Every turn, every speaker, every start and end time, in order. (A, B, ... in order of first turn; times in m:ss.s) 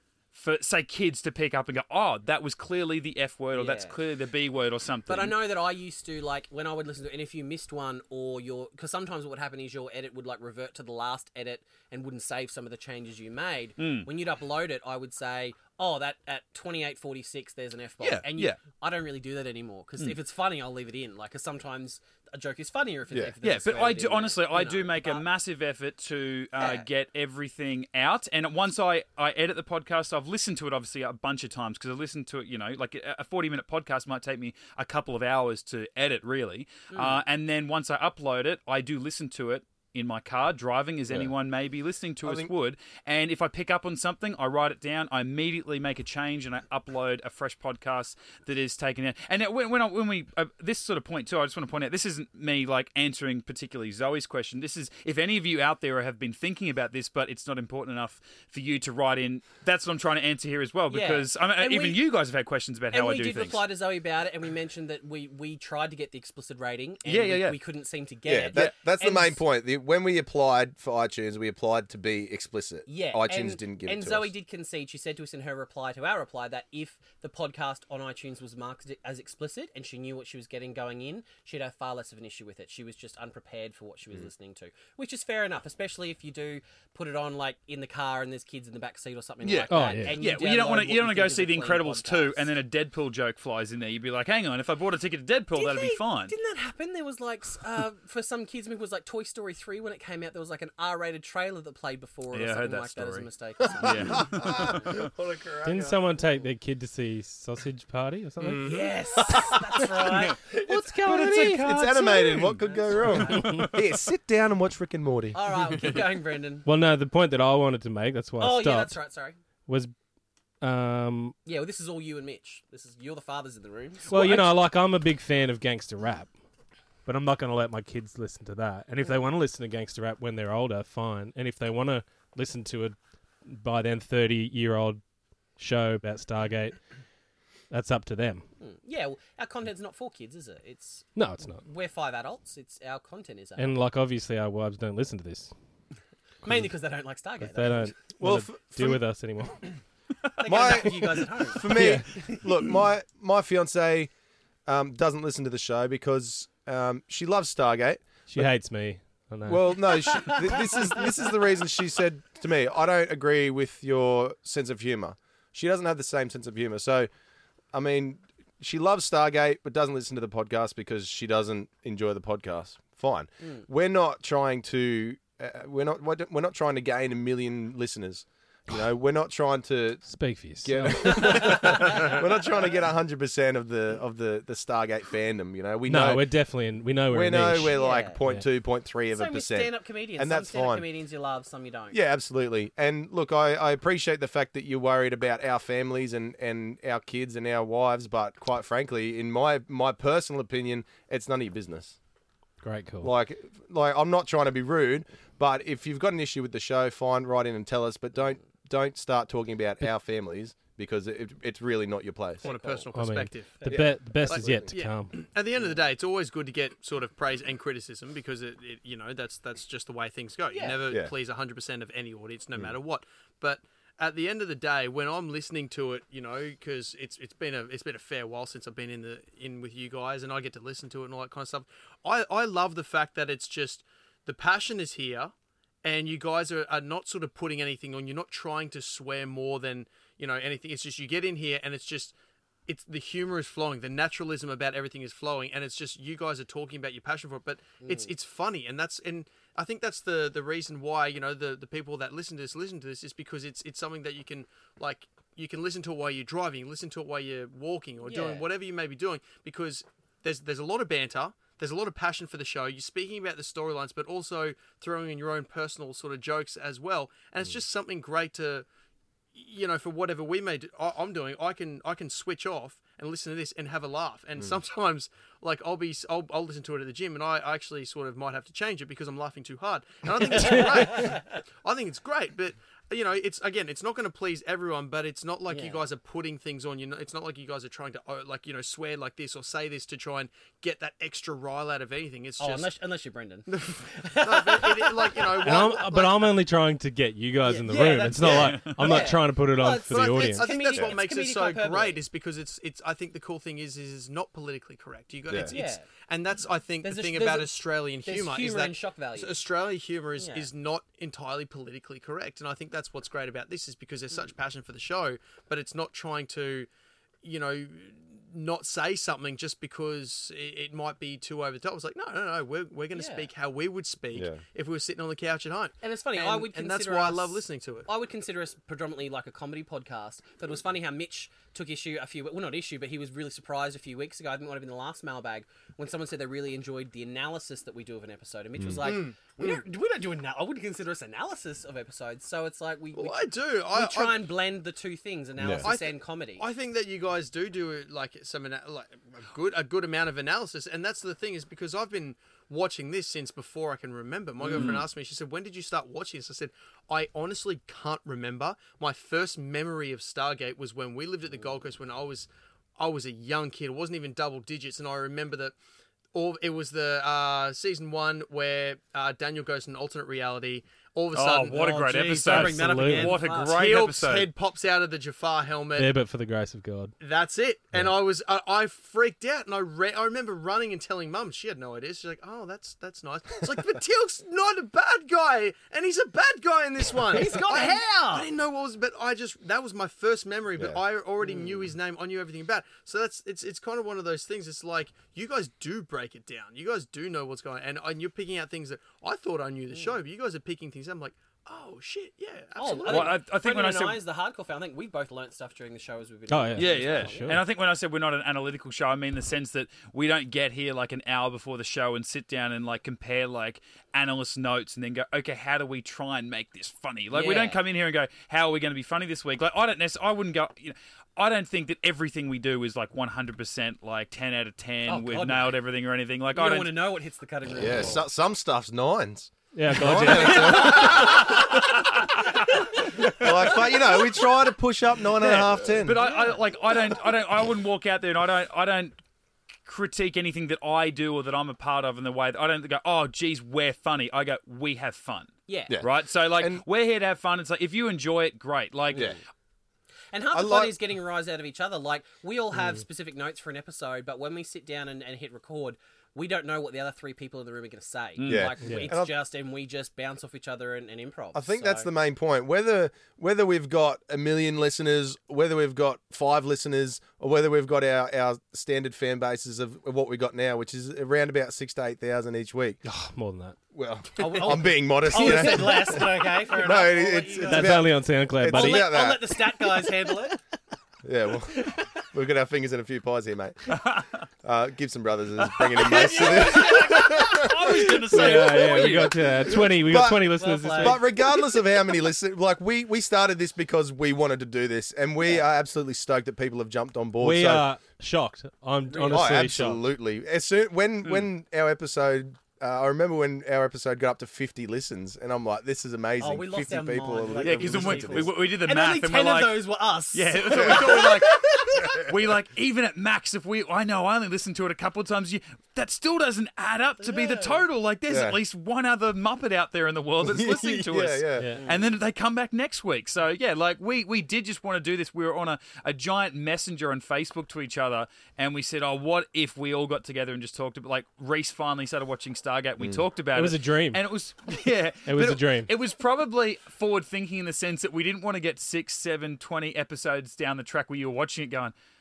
0:00.3-0:05.3 A
0:03.5-0:04.0 B
0:05.1-0:25.2 B
0:13.8-0:14.1 A
0:18.0-0:18.6 A
0:23.4-1:03.6 A
0:26.6-0:26.8 B
0:36.9-0:37.2 B
0:42.2-0:42.5 C
1:00.9-1:02.0 B
1:02.9-1:09.4 B
1:07.0-1:07.6 A
1:08.2-1:14.3 C
1:12.9-1:32.5 B
1:29.4-1:36.3 A
1:29.7-1:30.2 D
1:35.5-1:45.0 B
1:42.3-1:43.3 A
1:43.8-1:45.1 A
1:44.0-1:46.0 C
1:45.6-1:48.7 D
1:48.4-1:49.6 C
1:48.6-1:50.4 B
1:50.1-1:50.4 A
1:50.4-1:55.4 C
1:50.6-1:51.8 D
1:51.4-1:52.6 A
1:52.4-1:53.6 B
1:53.1-1:53.8 A
1:53.3-1:53.7 D
1:55.3-1:56.7 B
1:56.6-1:59.0 D
1:58.4-1:59.4 B
1:59.7-1:59.9 D
2:00.6-2:01.3 D
2:01.4-2:04.5 B
2:04.1-2:06.3 D
2:07.0-2:15.0 D
2:15.6-2:16.8 D
2:17.7-2:18.4 D
2:18.6-2:23.8 B
2:21.2-2:21.6 D
2:23.6-2:25.5 D
2:26.4-2:26.7 D
2:26.4-2:28.0 B
2:27.4-2:29.7 D
2:28.2-2:29.0 C
2:30.4-2:31.7 B
2:30.4-2:34.1 C
2:31.6-2:32.1 D
2:34.6-2:38.5 C
2:38.3-2:39.7 D
2:39.5-2:47.1 C
2:40.2-2:41.0 B
2:47.7-3:00.0 C
3:00.1-3:01.5 D
3:00.6-3:06.3 C
3:01.1-3:02.3 B
3:05.8-3:08.4 D
3:07.1-3:10.8 C
3:07.7-3:08.2 B
3:09.1-3:12.0 B
3:11.9-3:22.0 C
3:22.6-3:23.1 D
3:23.0-3:32.5 C
3:32.4-3:33.7 E
3:32.4-3:32.9 B
3:32.9-3:35.1 D
3:33.6-3:34.7 C
3:34.3-4:02.1 E
3:40.5-3:40.8 B
4:02.7-4:28.6 E
4:07.8-4:08.1 B
4:18.0-4:18.5 B
4:29.3-4:52.7 E
4:40.3-4:41.2 B
4:45.5-4:45.9 B
4:52.4-4:55.7 B
4:53.5-4:56.3 E
4:55.4-5:00.5 D
4:57.4-5:02.0 B
4:57.6-4:59.2 E
4:59.9-5:16.7 E
5:05.3-5:05.5 C
5:05.4-5:05.9 B
5:06.8-5:09.4 B
5:10.2-5:10.5 B
5:17.2-5:27.9 E
5:22.9-5:23.3 B
5:24.1-5:24.4 C
5:25.8-5:46.4 B
5:38.6-5:38.9 C
5:38.8-5:39.6 E
5:42.9-5:44.3 E
5:45.4-5:45.7 C
5:45.6-6:05.6 E
5:54.4-5:54.8 B
5:54.5-5:54.8 C
6:06.1-6:15.9 E
6:11.1-6:14.3 A
6:11.5-6:13.6 B
6:12.3-6:13.2 D
6:15.8-6:16.9 D
6:17.0-6:43.2 E
6:27.1-6:28.3 B
6:31.2-6:31.7 B
6:42.6-6:47.4 B
6:42.9-6:44.0 A
6:46.3-6:47.4 D
6:46.6-7:06.8 A
6:57.1-6:57.6 B
7:04.9-7:05.6 B
7:06.3-7:08.0 B
7:07.5-7:11.8 C
7:09.5-7:10.9 D
7:10.0-7:11.7 B
7:10.7-7:12.1 A
7:12.3-7:13.8 B
7:13.0-7:16.0 C
7:15.2-7:18.9 A
7:16.0-7:16.5 B
7:19.6-7:29.2 A
7:25.5-7:25.8 B
7:25.7-7:26.6 C
7:28.9-7:29.2 B
7:28.9-7:29.2 C
7:30.1-7:41.9 B
7:30.3-7:30.8 C
7:38.2-7:38.5 A
7:38.3-7:39.1 C
7:38.6-7:38.9 D
7:41.3-7:52.8 C
7:52.8-7:53.6 D
7:53.7-7:59.4 C
7:54.2-7:57.9 B
7:57.4-7:58.9 D
7:58.5-8:00.4 B
8:01.0-8:03.8 C
8:01.5-8:01.9 B
8:03.7-8:04.2 A
8:04.4-8:17.6 C
8:05.7-8:09.1 A
8:05.8-8:07.5 B
8:08.1-8:11.0 D
8:10.0-8:11.3 B
8:17.2-8:19.8 D
8:18.9-8:19.4 B
8:19.1-8:28.3 C
8:26.2-8:32.0 B
8:27.4-9:01.7 A
8:30.5-8:31.0 C
8:37.0-8:37.6 B
8:38.1-8:38.4 C
8:40.2-8:41.6 C
8:41.4-8:41.6 D
8:41.5-8:41.9 B
8:52.8-8:53.0 C
8:53.3-8:54.0 D
8:55.0-8:55.7 D